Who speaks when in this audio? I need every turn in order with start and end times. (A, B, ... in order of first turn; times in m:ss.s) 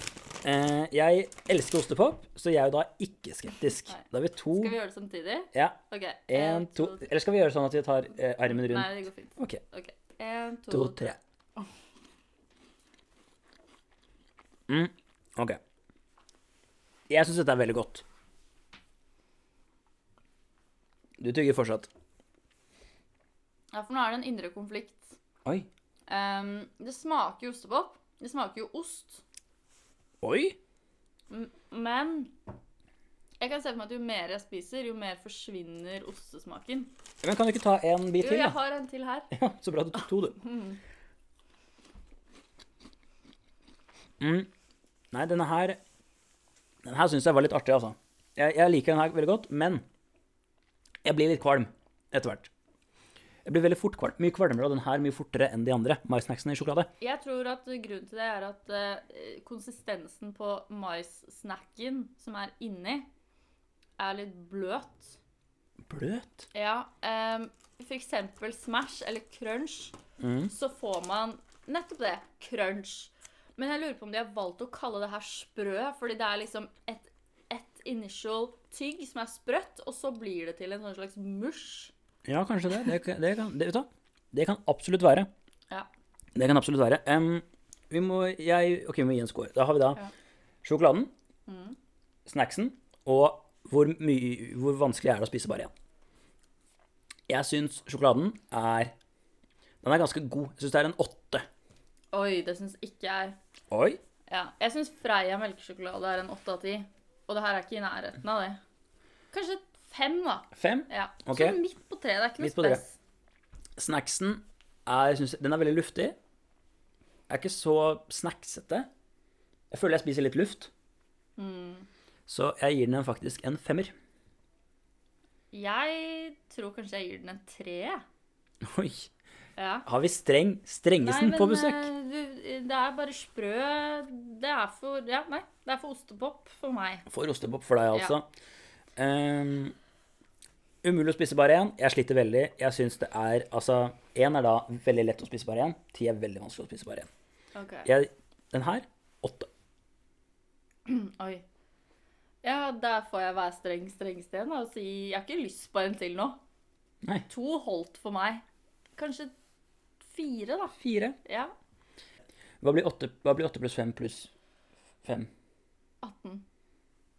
0:00.4-0:04.8 A
0:03.9-0:07.1 B
0:06.3-0:09.6 A
0:08.5-0:11.7 B
0:10.7-0:11.2 A
0:14.7-0:15.6 A
0:17.1-0:18.0 A
0:21.2-0:21.9 A
0:23.7-0:25.2 B
0:26.1-0:29.2 B
0:30.2-0:30.6 A
0:31.3-0:32.3 B
0:33.4-0:36.9 B
0:37.2-0:38.6 A
0:38.2-0:39.3 B
0:39.3-0:40.4 A
0:40.4-0:40.8 B
0:44.2-0:44.5 A
0:45.1-0:45.8 A
0:46.8-0:49.8 A
0:51.0-0:52.5 A
0:53.4-0:56.9 A
0:57.0-1:03.1 B
1:04.0-1:05.2 B
1:05.9-1:06.4 A
1:06.5-1:10.0 B
1:10.2-1:10.5 A
1:10.5-1:21.9 B
1:22.2-1:25.3 A
1:26.3-1:30.0 A
1:30.6-1:31.1 A
1:31.5-1:31.8 B
1:32.2-1:35.7 A
1:37.3-1:38.9 A
1:39.8-1:41.4 A
1:42.1-1:43.4 B
1:43.7-1:44.0 A
1:44.3-1:48.6 B
1:49.3-1:52.9 B
1:50.6-1:51.6 A
1:52.4-1:52.8 A
1:53.8-1:56.2 A
1:57.3-1:58.9 A
1:59.7-2:00.7 A
2:01.4-2:01.9 B
2:02.3-2:03.9 A
2:05.5-2:08.0 B
2:08.6-2:09.1 A
2:09.6-2:09.8 B
2:09.9-2:11.9 A
2:11.0-2:17.1 B
2:17.1-2:18.3 A
2:19.0-2:19.7 A
2:20.8-2:27.1 A
2:27.5-2:27.9 B
2:27.8-2:29.5 A
2:30.9-2:31.4 B
2:32.4-2:36.4 B
2:37.3-2:38.4 B
2:39.0-2:39.3 B
2:40.0-2:41.5 B
2:40.8-2:41.2 A
2:42.6-2:44.3 A
2:45.0-2:45.3 A
2:46.0-2:46.4 B